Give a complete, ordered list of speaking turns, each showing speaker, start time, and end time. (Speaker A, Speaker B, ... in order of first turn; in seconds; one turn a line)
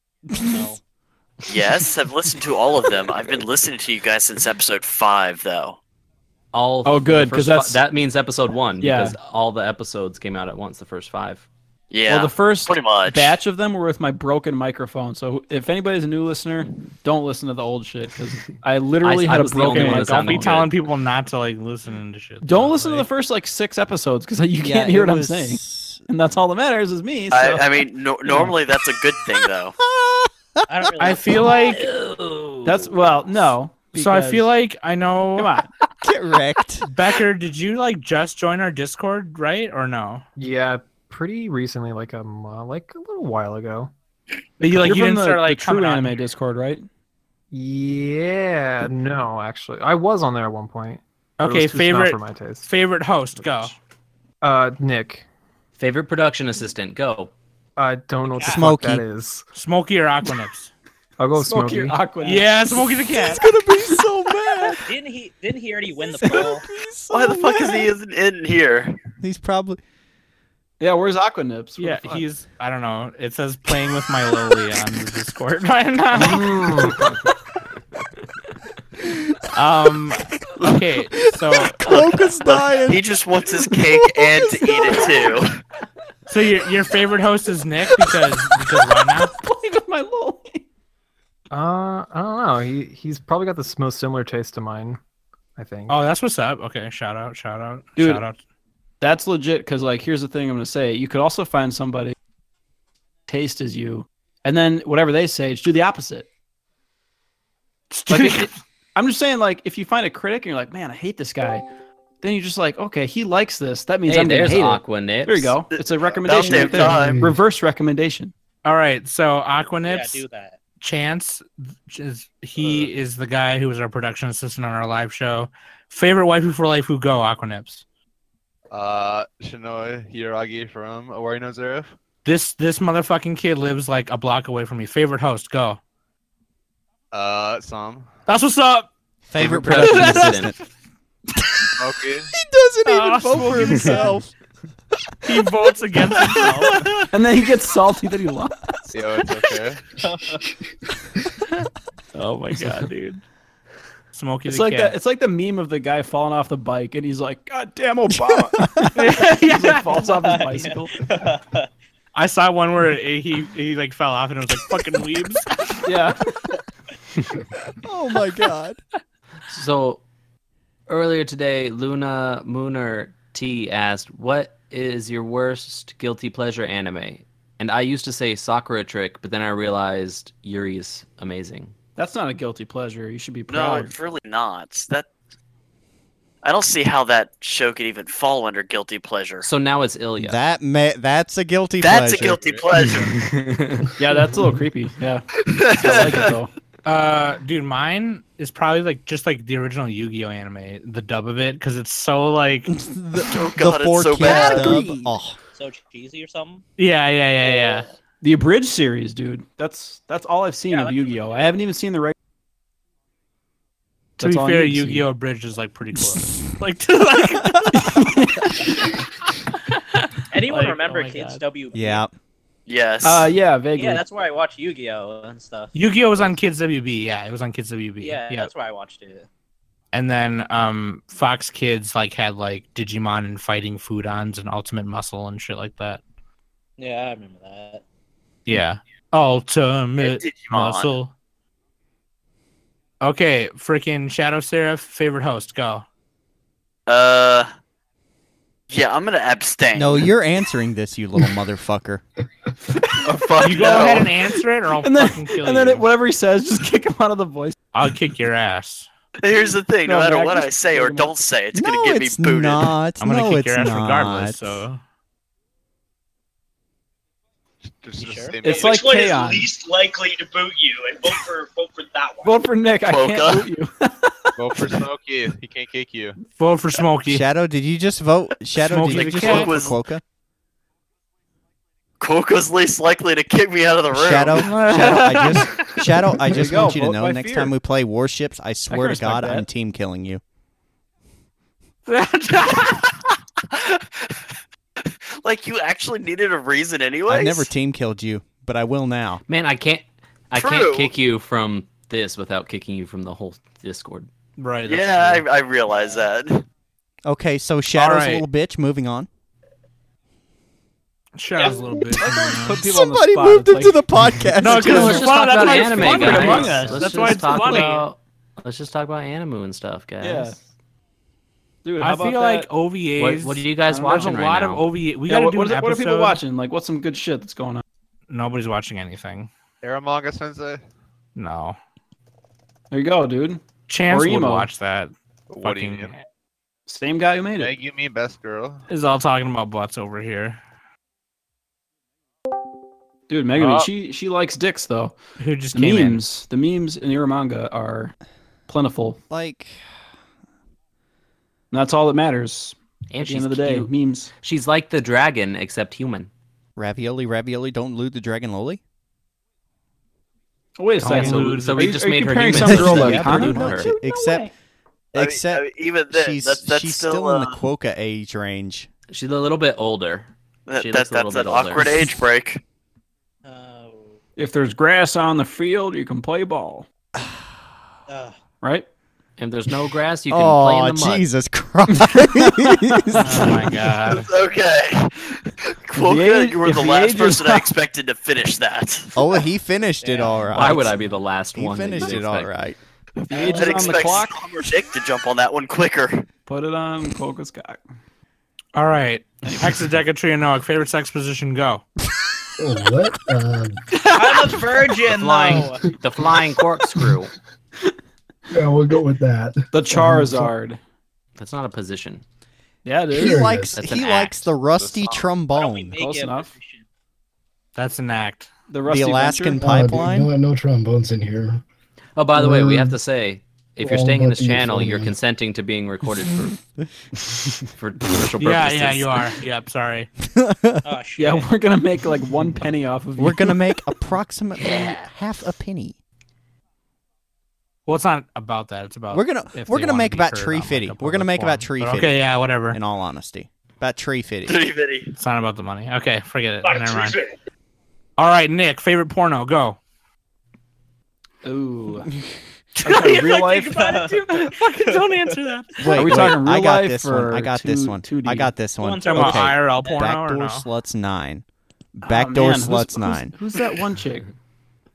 Speaker A: 0.5-0.8
Speaker B: 1.4-5.8
Speaker C: 6.5-11.5
Speaker D: 6.8-7.8
Speaker D: 8.8-9.2
Speaker B: 11.9-13.3
Speaker D: 12.1-20.6
Speaker C: 19.0-20.7
Speaker E: 19.3-23.1
Speaker D: 22.4-27.8
Speaker F: 24.6-26.0
Speaker B: 27.3-29.7
Speaker F: 29.9-30.6
Speaker A: 30.7-32.7
Speaker E: 31.0-31.9
Speaker D: 32.6-34.5
Speaker E: 33.9-35.6
Speaker D: 35.4-35.7
Speaker F: 36.0-36.9
Speaker E: 36.8-40.2
Speaker G: 40.4-43.9
Speaker E: 44.6-46.2
Speaker D: 44.6-46.9
Speaker G: 47.5-52.7
Speaker E: 51.4-53.8
Speaker G: 54.4-55.2
Speaker C: 55.8-57.3
Speaker G: 57.8-59.4
Speaker A: 58.3-58.7
Speaker F: 58.4-59.0
Speaker E: 59.5-60.7
Speaker G: 61.2-62.0
Speaker D: 61.4-62.6
Speaker E: 62.2-63.4
Speaker F: 63.0-64.9
Speaker A: 64.8-66.7
Speaker F: 66.1-67.9
Speaker B: 67.1-69.0
Speaker F: 69.2-69.8
Speaker D: 70.8-72.2
Speaker E: 71.8-76.8
Speaker D: 76.2-77.1
Speaker E: 79.5-81.8
Speaker F: 80.6-85.4
Speaker B: 81.8-85.6
Speaker E: 86.3-89.3
Speaker D: 89.2-90.6
Speaker G: 91.5-95.0
Speaker G: 95.6-96.0
Speaker E: 95.9-98.4
Speaker D: 98.0-98.2
Speaker D: 99.0-102.2
Speaker D: 103.3-106.3
Speaker E: 107.9-108.5
Speaker D: 108.1-111.6
Speaker D: 112.2-118.3
Speaker C: 114.0-115.5
Speaker B: 115.7-117.2
Speaker H: 116.2-117.4
Speaker E: 118.6-120.2
Speaker A: 119.8-120.6
Speaker E: 120.8-127.8
Speaker A: 122.6-122.8
Speaker I: 128.7-131.9
Speaker E: 132.2-135.8
Speaker I: 137.1-138.1
Speaker E: 138.3-138.9
Speaker F: 139.3-140.6
Speaker C: 139.4-140.5
Speaker E: 139.8-140.3
Speaker I: 141.8-142.3
Speaker F: 142.3-144.3
Speaker E: 142.8-144.1
Speaker E: 145.2-146.9
Speaker D: 147.1-148.7
Speaker I: 148.9-149.8
Speaker A: 150.0-150.4
Speaker E: 152.2-153.2
Speaker D: 152.5-152.9
Speaker E: 154.1-154.9
Speaker D: 154.5-161.0
Speaker F: 158.2-158.8
Speaker E: 158.9-160.0
Speaker A: 160.1-161.7
Speaker E: 162.1-165.6
Speaker D: 165.8-166.2
Speaker F: 167.8-168.8
Speaker C: 169.5-170.0
Speaker C: 170.9-181.7
Speaker D: 182.0-183.9
Speaker B: 183.5-185.1
Speaker B: 186.4-189.5
Speaker C: 189.4-190.4
Speaker F: 190.2-192.4
Speaker B: 191.8-193.2
Speaker I: 192.1-192.9
Speaker D: 194.0-196.5
Speaker B: 195.5-196.3
Speaker E: 196.8-202.7
Speaker F: 202.7-205.4
Speaker B: 203.2-204.8
Speaker D: 204.2-205.1
Speaker A: 205.5-206.6
Speaker E: 206.8-207.9
Speaker D: 208.2-212.1
Speaker A: 210.7-211.4
Speaker D: 214.2-215.1
Speaker E: 214.2-218.1
Speaker D: 217.7-218.6
Speaker A: 220.3-222.0
Speaker E: 220.5-221.4
Speaker F: 221.7-222.1
Speaker B: 222.7-223.3
Speaker D: 223.0-224.0
Speaker A: 223.8-226.3
Speaker E: 225.7-228.5
Speaker A: 228.0-229.3
Speaker E: 229.9-236.0
Speaker A: 236.8-237.8
Speaker E: 238.4-241.1
Speaker B: 240.0-240.9
Speaker E: 243.0-245.8
Speaker B: 246.9-247.5
Speaker B: 248.7-250.1
Speaker F: 249.8-252.0
Speaker D: 252.9-257.5
Speaker B: 253.1-254.1
Speaker E: 253.3-255.9
Speaker E: 257.7-258.9
Speaker B: 259.2-262.7
Speaker D: 259.8-261.1
Speaker F: 261.5-264.6
Speaker E: 263.0-264.8
Speaker I: 267.7-268.9
Speaker A: 268.0-268.4
Speaker D: 268.4-269.5
Speaker J: 268.5-272.3
Speaker D: 272.2-274.7
Speaker B: 272.8-273.5
Speaker I: 274.4-276.2
Speaker E: 276.3-277.2
Speaker F: 277.1-280.0
Speaker E: 278.6-279.7
Speaker B: 278.9-279.8
Speaker B: 282.0-284.8
Speaker F: 283.9-290.2
Speaker E: 284.4-285.8
Speaker D: 286.3-287.5
Speaker D: 288.7-289.4
Speaker E: 291.9-293.0
Speaker B: 294.9-297.5
Speaker F: 297.1-299.2
Speaker C: 299.3-304.1
Speaker B: 300.3-300.9
Speaker E: 304.4-305.2
Speaker B: 304.6-306.4
Speaker F: 307.0-309.1
Speaker E: 307.7-308.2
Speaker E: 311.1-312.6
Speaker D: 311.9-313.8
Speaker F: 312.6-315.4
Speaker E: 314.4-317.9
Speaker D: 314.4-317.7
Speaker C: 314.5-320.4
Speaker F: 316.2-316.6
Speaker D: 320.0-320.4
Speaker D: 321.6-322.5
Speaker E: 321.8-326.2
Speaker C: 323.0-324.7
Speaker D: 323.7-324.2
Speaker D: 325.1-327.6
Speaker E: 328.1-329.3
Speaker I: 329.6-330.6
Speaker E: 331.1-331.6
Speaker D: 332.7-334.5
Speaker E: 333.7-334.9
Speaker I: 335.3-335.9
Speaker E: 335.4-336.0
Speaker D: 336.7-337.5
Speaker I: 337.4-338.6
Speaker E: 338.7-340.4
Speaker D: 343.1-344.9
Speaker E: 345.2-346.0
Speaker D: 345.5-347.9
Speaker D: 348.5-349.0
Speaker F: 349.1-349.6
Speaker D: 351.5-354.1
Speaker C: 352.9-356.1
Speaker F: 356.6-358.6
Speaker D: 360.6-363.6
Speaker E: 360.8-361.8
Speaker C: 360.8-363.7
Speaker F: 362.4-364.3
Speaker A: 363.8-364.1
Speaker F: 364.9-368.7
Speaker B: 364.9-367.4
Speaker C: 368.9-371.7
Speaker B: 370.5-372.4
Speaker A: 373.2-373.9
Speaker D: 374.2-376.7
Speaker A: 377.9-378.2
Speaker D: 378.4-378.7
Speaker C: 379.2-381.1
Speaker F: 380.1-383.5
Speaker E: 382.9-384.1
Speaker B: 383.9-389.1
Speaker D: 385.7-387.5
Speaker F: 388.9-390.8
Speaker A: 389.8-390.4
Speaker C: 390.3-392.3
Speaker F: 391.3-392.6
Speaker D: 393.0-394.2
Speaker A: 393.1-394.0
Speaker B: 393.3-396.1
Speaker D: 396.3-397.6
Speaker E: 398.5-401.6
Speaker H: 402.4-403.6
Speaker A: 403.9-405.7
Speaker C: 405.0-407.1
Speaker H: 408.3-410.3
Speaker D: 409.5-410.6
Speaker C: 411.2-412.0
Speaker D: 412.6-413.3
Speaker H: 412.9-413.6
Speaker F: 412.9-415.8
Speaker C: 413.5-414.3
Speaker I: 414.5-415.0
Speaker A: 415.3-416.6
Speaker D: 415.8-416.3
Speaker E: 417.6-418.3
Speaker D: 418.5-419.5
Speaker F: 418.6-420.1
Speaker H: 419.3-421.4
Speaker C: 421.9-426.4
Speaker H: 422.1-422.8
Speaker H: 423.6-424.9
Speaker C: 427.5-429.1
Speaker E: 428.2-429.9
Speaker F: 430.1-430.6
Speaker A: 430.6-431.3
Speaker D: 431.0-433.4
Speaker F: 433.0-435.8
Speaker E: 437.6-442.6
Speaker F: 438.9-444.4
Speaker B: 444.2-444.9
Speaker E: 445.0-447.0
Speaker J: 446.4-447.1
Speaker E: 448.0-449.6
Speaker D: 451.2-451.9
Speaker D: 452.6-453.8
Speaker E: 452.6-456.0
Speaker A: 453.0-455.1
Speaker F: 455.6-461.2
Speaker D: 455.7-458.3
Speaker A: 458.6-459.9
Speaker E: 458.8-460.4
Speaker F: 461.7-463.1
Speaker D: 461.8-464.1